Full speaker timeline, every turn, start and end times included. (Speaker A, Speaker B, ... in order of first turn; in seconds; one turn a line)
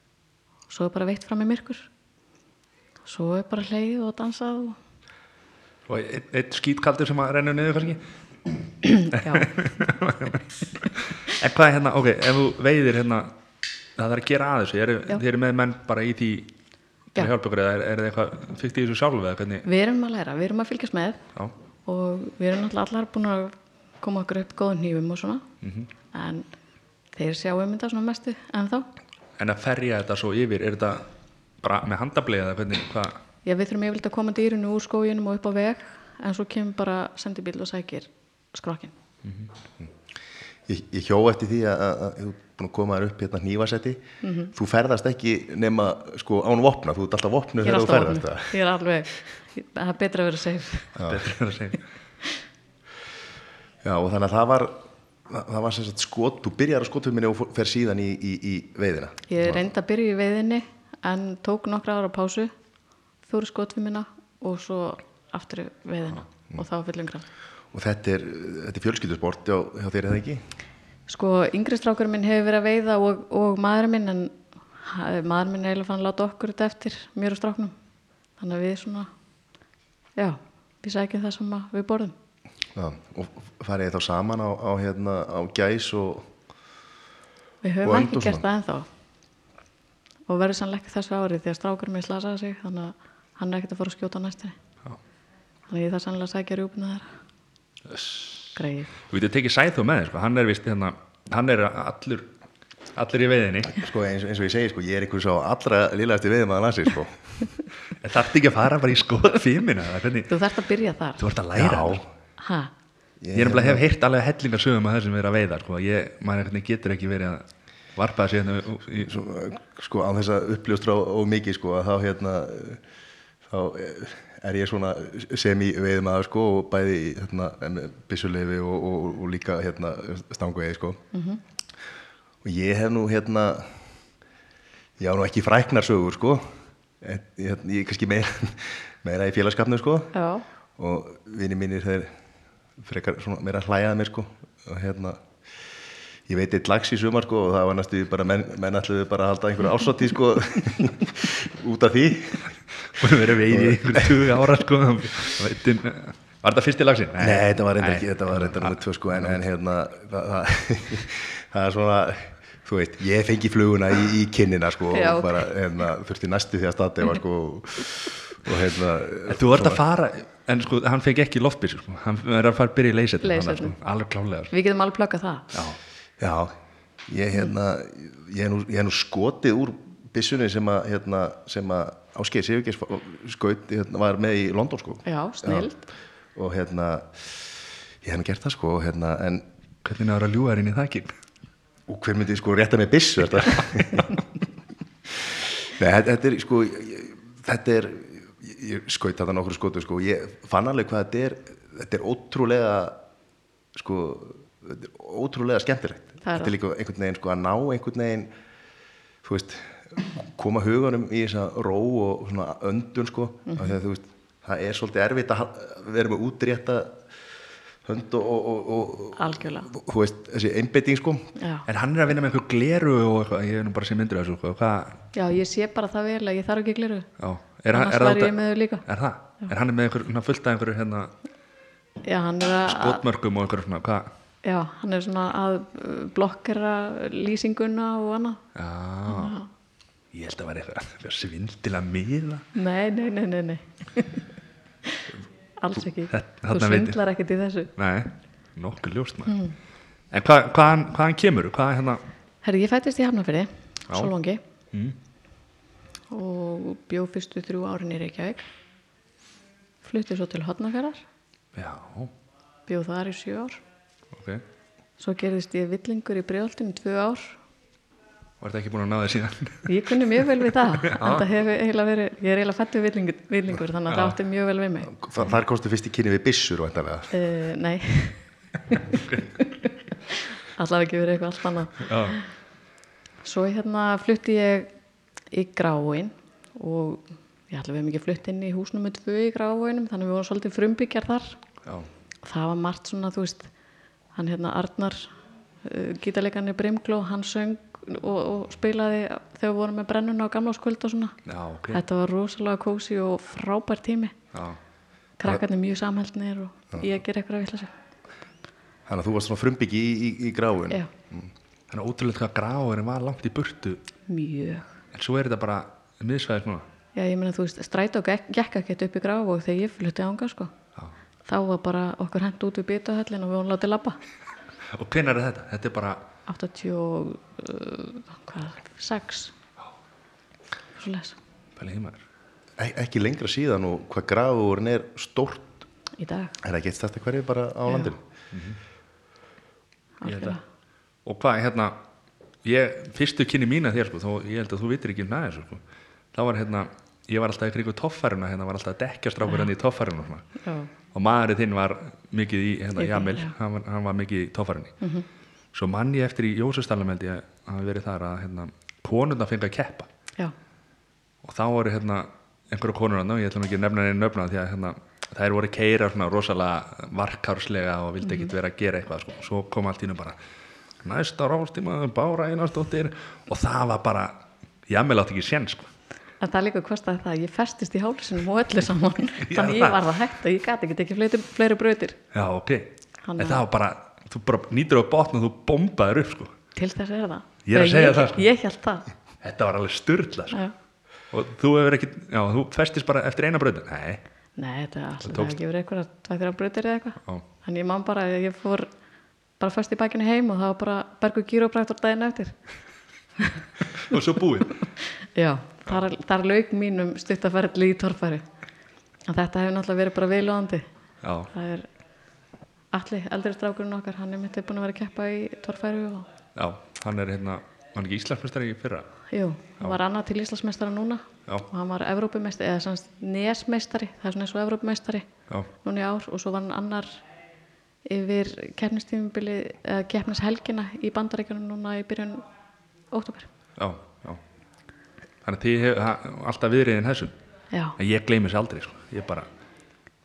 Speaker A: 0.7-1.9
Speaker A: 3.0-4.8
Speaker B: 5.9-8.0
Speaker A: 8.8-9.5
Speaker B: 9.1-13.3
Speaker B: 14.0-16.5
Speaker B: 17.1-19.6
Speaker A: 19.6-21.2
Speaker A: 21.9-25.4
Speaker B: 25.6-25.9
Speaker A: 26.1-26.5
Speaker A: 27.1-28.9
Speaker B: 29.4-31.1
Speaker B: 31.6-33.2
Speaker A: 33.4-38.9
Speaker C: 40.7-48.6
Speaker A: 44.2-44.5
Speaker A: 47.6-51.0
Speaker C: 51.0-51.2
Speaker B: 51.0-51.8
Speaker C: 53.8-59.6
Speaker A: 59.3-62.5
Speaker A: 63.3-67.2
Speaker C: 67.7-70.4
Speaker A: 71.1-77.7
Speaker A: 78.4-79.1
Speaker A: 80.2-82.1
Speaker C: 82.7-86.3
Speaker A: 87.6-88.9
Speaker C: 87.8-88.4
Speaker A: 90.3-94.5
Speaker A: 95.7-97.1
Speaker B: 97.9-98.5
Speaker A: 98.5-98.9
Speaker B: 99.0-102.3
Speaker B: 102.9-103.8
Speaker C: 103.8-107.5
Speaker B: 108.0-110.4
Speaker A: 110.3-111.2
Speaker B: 111.2-112.0
Speaker C: 111.5-112.0
Speaker A: 112.4-112.7
Speaker C: 113.2-113.8
Speaker B: 113.3-119.1
Speaker C: 119.0-122.8
Speaker C: 123.5-131.0
Speaker A: 131.1-131.4
Speaker C: 132.4-133.8
Speaker C: 135.0-140.1
Speaker A: 140.1-140.4
Speaker C: 140.8-142.1
Speaker C: 142.8-145.2
Speaker C: 146.3-152.5
Speaker B: 152.9-159.4
Speaker C: 153.5-154.4
Speaker C: 157.2-169.8
Speaker A: 164.9-165.5
Speaker B: 169.3-174.5
Speaker A: 173.2-173.7
Speaker A: 174.5-175.5
Speaker B: 175.5-175.8
Speaker C: 176.2-176.6
Speaker C: 177.1-185.7
Speaker A: 185.0-185.9
Speaker C: 186.3-189.4
Speaker B: 189.8-191.1
Speaker C: 191.9-194.2
Speaker C: 195.1-203.0
Speaker C: 203.7-208.3
Speaker A: 206.2-206.5
Speaker C: 209.2-217.0
Speaker A: 213.5-213.7
Speaker C: 217.8-221.3
Speaker A: 219.2-219.7
Speaker A: 221.4-221.7
Speaker B: 221.7-225.0
Speaker A: 225.1-227.1
Speaker B: 227.2-231.1
Speaker A: 227.7-228.8
Speaker A: 232.0-233.0
Speaker B: 232.7-234.1
Speaker A: 234.4-238.4
Speaker B: 238.5-239.3
Speaker A: 239.1-239.5
Speaker B: 240.1-242.4
Speaker A: 242.5-244.2
Speaker A: 244.8-247.7
Speaker B: 246.1-247.0
Speaker B: 247.8-249.4
Speaker A: 249.2-249.5
Speaker B: 250.1-252.0
Speaker A: 252.4-254.4
Speaker B: 254.7-255.0
Speaker A: 256.1-258.4
Speaker A: 259.8-261.0
Speaker B: 261.5-262.1
Speaker A: 262.7-263.6
Speaker B: 264.1-264.4
Speaker A: 265.0-267.4
Speaker B: 268.4-271.3
Speaker A: 269.7-274.9
Speaker C: 274.9-277.1
Speaker A: 277.1-278.2
Speaker A: 279.4-282.2
Speaker B: 281.8-282.2
Speaker A: 283.2-284.7
Speaker A: 285.3-291.4
Speaker A: 292.2-293.5
Speaker A: 294.1-301.2
Speaker B: 301.2-301.8
Speaker A: 301.7-304.1
Speaker B: 304.3-304.6
Speaker A: 305.2-307.7
Speaker C: 308.9-311.3
Speaker B: 311.7-313.8
Speaker A: 314.1-314.7
Speaker B: 314.9-316.6
Speaker A: 316.9-320.5
Speaker A: 321.2-324.0
Speaker B: 324.7-326.1
Speaker A: 326.3-329.3
Speaker A: 330.8-331.2
Speaker B: 331.6-332.0
Speaker C: 332.6-335.5
Speaker A: 336.0-336.4
Speaker C: 336.4-338.0
Speaker A: 337.7-337.9
Speaker B: 338.3-338.6
Speaker A: 340.0-340.4
Speaker B: 340.0-340.4
Speaker B: 341.0-341.8
Speaker B: 342.4-345.6
Speaker B: 346.1-350.2
Speaker A: 350.4-350.7
Speaker B: 350.9-354.8
Speaker A: 352.8-353.3
Speaker A: 354.8-355.1
Speaker B: 355.5-359.9
Speaker B: 361.2-370.2
Speaker A: 368.0-368.3
Speaker B: 370.8-375.7
Speaker A: 376.2-382.0
Speaker B: 379.2-379.9
Speaker B: 382.1-386.3
Speaker A: 383.0-383.4
Speaker A: 386.5-388.9
Speaker B: 387.4-388.2
Speaker B: 389.2-390.4
Speaker B: 391.1-394.0
Speaker A: 394.4-398.7
Speaker B: 395.1-395.3
Speaker A: 399.4-402.4
Speaker A: 403.2-403.9
Speaker B: 403.8-404.7
Speaker A: 404.9-408.2
Speaker A: 409.1-410.6
Speaker B: 411.0-411.3
Speaker A: 411.3-411.7
Speaker A: 412.7-416.1
Speaker B: 416.4-418.9
Speaker A: 419.1-425.1
Speaker A: 425.6-427.0
Speaker A: 427.8-432.2
Speaker A: 432.9-433.3
Speaker B: 433.6-434.2
Speaker B: 435.2-437.1
Speaker B: 437.8-439.3